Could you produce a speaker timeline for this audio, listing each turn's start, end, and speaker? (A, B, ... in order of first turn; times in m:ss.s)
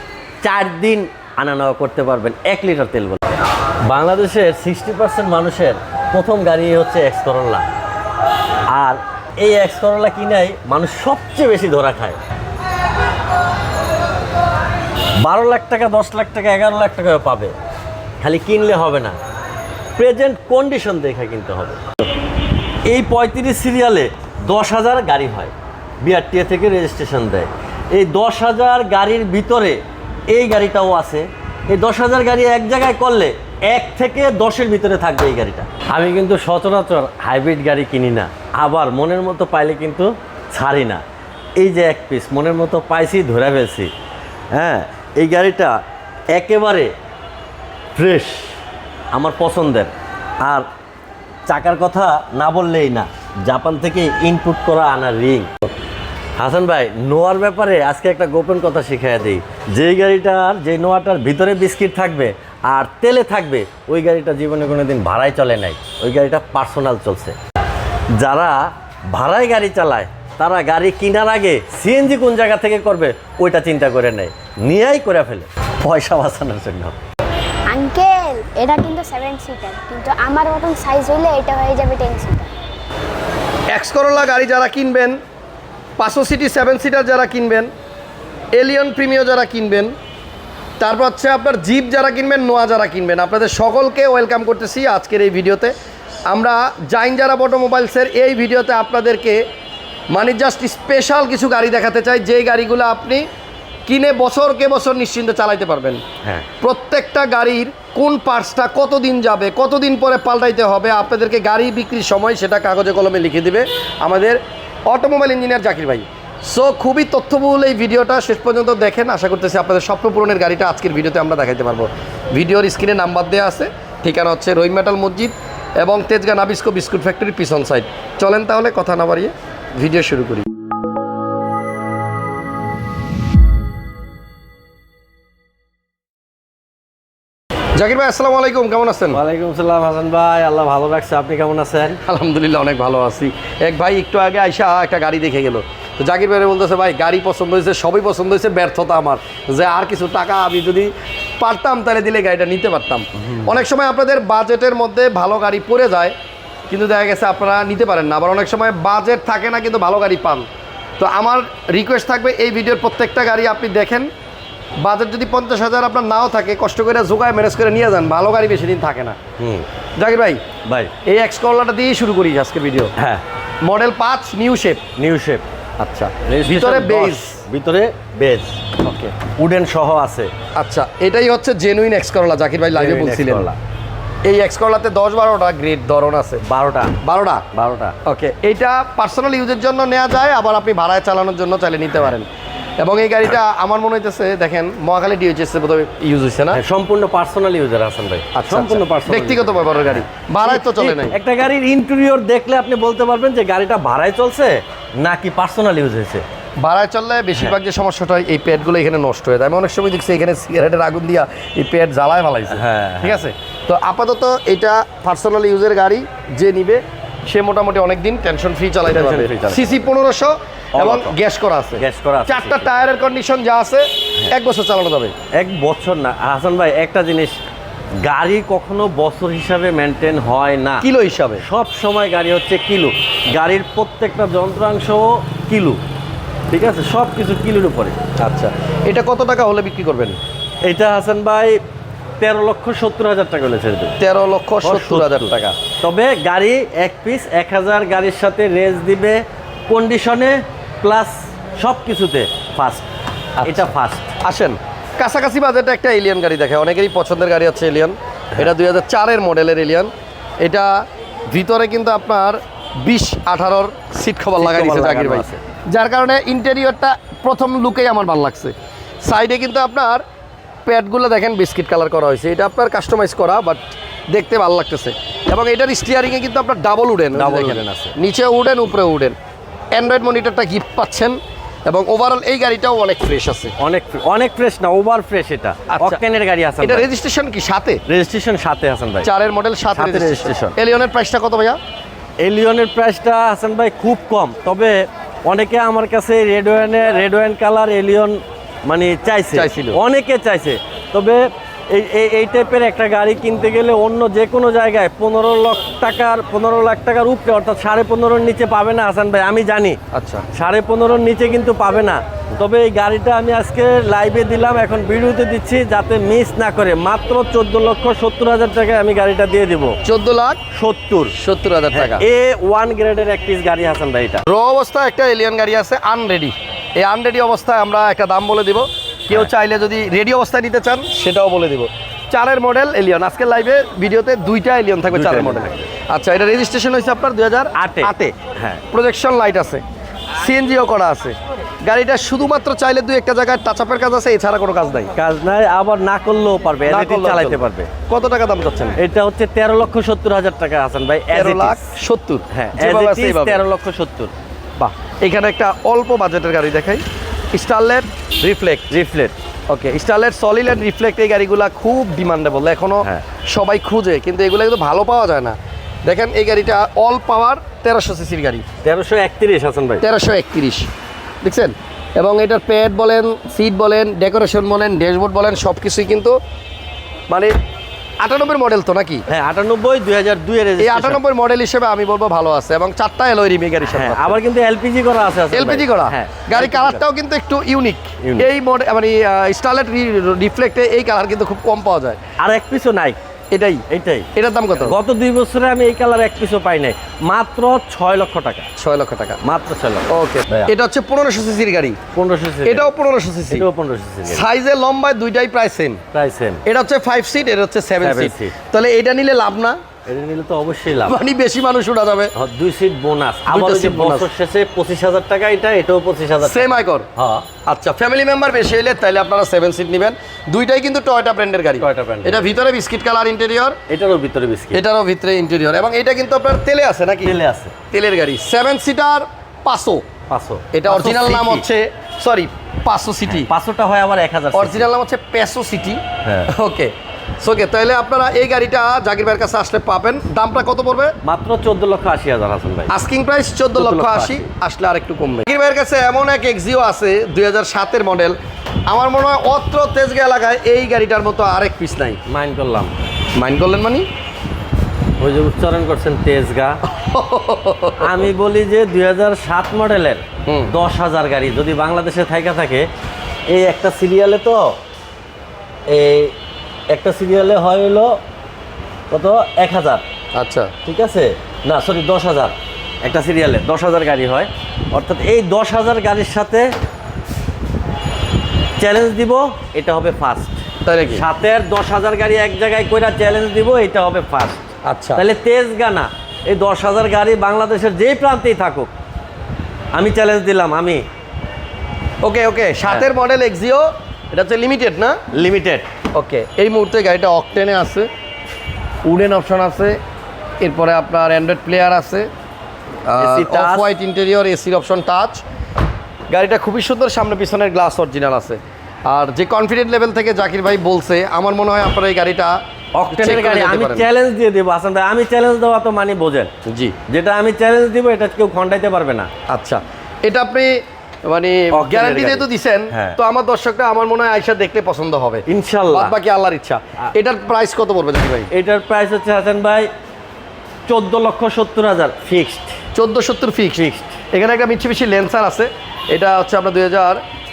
0:00.4-0:03.2 A
0:03.8-0:07.6 A
0:08.7-0:12.2 A
0:15.2-0:17.5 A
0:18.2-0:19.2 A
0:20.0-0:21.8 A
0:22.9-0:41.0 A
0:41.6-0:43.9 A
0:44.5-0:45.8 A
0:46.3-0:46.9 A
0:47.9-0:48.6 A
0:49.1-0:49.9 A
0:51.5-0:55.5 A
0:56.4-1:07.4 A
1:08.1-1:16.9 A
1:17.7-1:22.5 B
1:23.7-1:25.2 C
1:26.0-1:27.7 C
1:28.6-1:29.9 C
1:30.8-1:35.7 C
1:36.3-1:39.4 C
1:40.1-1:43.2 C
1:43.8-1:46.0 C
1:46.6-2:10.4 C
2:17.8-2:19.2 C
2:19.1-2:22.0 A
2:22.0-2:36.1 C
2:36.7-2:40.5 C
2:41.0-2:44.1 C
2:44.8-2:49.2 C
2:49.4-2:49.6 A
2:50.0-2:50.4 C
2:50.6-2:50.9 A
2:51.0-2:52.9 C
2:53.0-2:53.2 A
2:53.6-2:54.8 C
2:55.0-2:55.4 A
2:55.8-2:57.4 C
2:56.1-2:58.6 A
2:58.8-2:59.1 C
2:59.2-3:00.3 A
3:00.6-3:03.5 C
3:02.7-3:03.6 A
3:04.2-3:06.4 C
3:06.4-3:07.0 A
3:07.0-3:07.4 C
3:07.5-3:07.9 A
3:08.0-3:12.3 C
3:12.8-3:16.6 C
3:16.5-3:26.2 A
3:18.3-3:21.2 C
3:26.6-3:45.1 C
3:32.5-3:33.2 A
3:38.8-3:39.8 A
3:40.7-3:41.1 A
3:41.8-3:42.7 A
3:45.4-3:47.4 A
3:48.0-3:50.9 A
3:50.8-3:51.4 C
3:51.4-3:55.8 A
3:56.5-3:58.0 A
3:58.2-4:00.2 C
4:00.6-4:01.6 A
4:02.2-4:04.0 A
4:04.0-4:05.5 C
4:04.6-4:14.1 A
4:13.4-4:13.7 C
4:14.2-4:19.9 C
4:20.4-4:30.0 C
4:24.4-4:25.4 A
4:30.6-4:39.2 C
4:37.1-4:37.9 A
4:39.7-4:43.5 C
4:43.6-4:46.9 A
4:45.7-4:46.0 C
4:46.6-4:47.8 C
4:47.9-4:49.1 A
4:49.0-4:51.6 C
4:49.7-4:50.5 A
4:52.2-5:09.8 A
4:59.3-4:59.8 C
5:09.9-5:10.2 C
5:10.3-5:19.8 A
5:19.8-5:20.4 C
5:20.5-5:21.1 A
5:21.2-5:22.0 C
5:21.7-5:24.2 A
5:24.2-5:38.1 C
5:34.9-5:35.7 A
5:37.5-5:38.6 A
5:38.7-5:39.6 C
5:40.2-5:44.9 C
5:45.0-5:47.7 A
5:46.7-5:48.8 C
5:48.8-5:51.7 A
5:51.1-5:53.4 C
5:52.3-5:54.1 A
5:54.6-5:58.7 C
5:58.7-5:59.1 A
5:59.5-6:08.4 C
6:08.6-6:09.8 A
6:09.8-6:10.7 C
6:11.2-6:16.2 C
6:18.0-6:19.0 C
6:19.1-6:21.0 A
6:20.6-6:24.2 C
6:23.7-6:26.8 A
6:25.3-6:32.0 C
6:28.0-6:28.3 A
6:32.2-6:33.0 A
6:33.3-6:33.6 C
6:33.7-6:38.5 A
6:34.2-6:34.8 C
6:38.6-6:39.2 C
6:39.2-6:40.5 A
6:39.9-6:41.8 C
6:41.9-6:42.7 A
6:42.4-6:43.4 C
6:43.3-6:44.2 A
6:44.1-6:45.8 C
6:45.9-6:46.4 A
6:46.4-6:49.6 C
6:47.8-6:48.3 A
6:49.8-6:51.0 A
6:50.8-6:52.1 C
6:52.1-6:57.3 A
6:53.3-6:54.1 C
6:56.2-6:56.9 C
6:57.4-7:03.6 C
7:01.6-7:02.3 A
7:03.7-7:04.6 A
7:04.5-7:07.2 C
7:07.0-7:07.5 A
7:07.7-7:09.8 C
7:10.1-7:11.4 A
7:10.5-7:13.3 C
7:13.0-7:14.7 A
7:14.3-7:20.9 C
7:16.0-7:16.3 A
7:21.0-7:22.7 A
7:22.7-7:28.2 C
7:23.5-7:24.2 A
7:28.7-7:32.0 C
7:32.1-7:32.7 A
7:33.1-7:33.9 C
7:35.0-7:36.6 A
7:36.6-7:38.1 C
7:37.8-7:42.7 A
7:40.2-7:40.5 C
7:43.3-7:44.6 A
7:45.7-7:46.1 A
7:46.7-7:47.9 A
7:48.9-7:49.8 A
7:50.1-7:50.5 C
7:50.6-7:56.5 A
7:58.6-8:00.4 A
8:00.6-8:01.0 C
8:00.9-8:04.4 A
8:04.6-8:05.0 C
8:05.0-8:08.7 A
8:09.7-8:10.8 A
8:12.0-8:15.0 C
8:15.1-8:15.7 A
8:15.9-8:17.9 C
8:18.8-8:19.8 C
8:20.4-8:22.1 C
8:22.9-8:25.2 C
8:23.0-8:23.7 A
8:26.1-8:32.4 C
8:32.7-8:36.3 A
8:32.9-8:33.9 C
8:36.4-8:36.7 C
8:36.9-8:39.1 A
8:39.3-8:48.3 C
8:41.5-8:43.0 A
8:45.3-8:45.9 A
8:48.3-8:49.7 A
8:50.7-8:52.6 A
8:52.7-8:57.0 C
8:53.6-8:54.0 A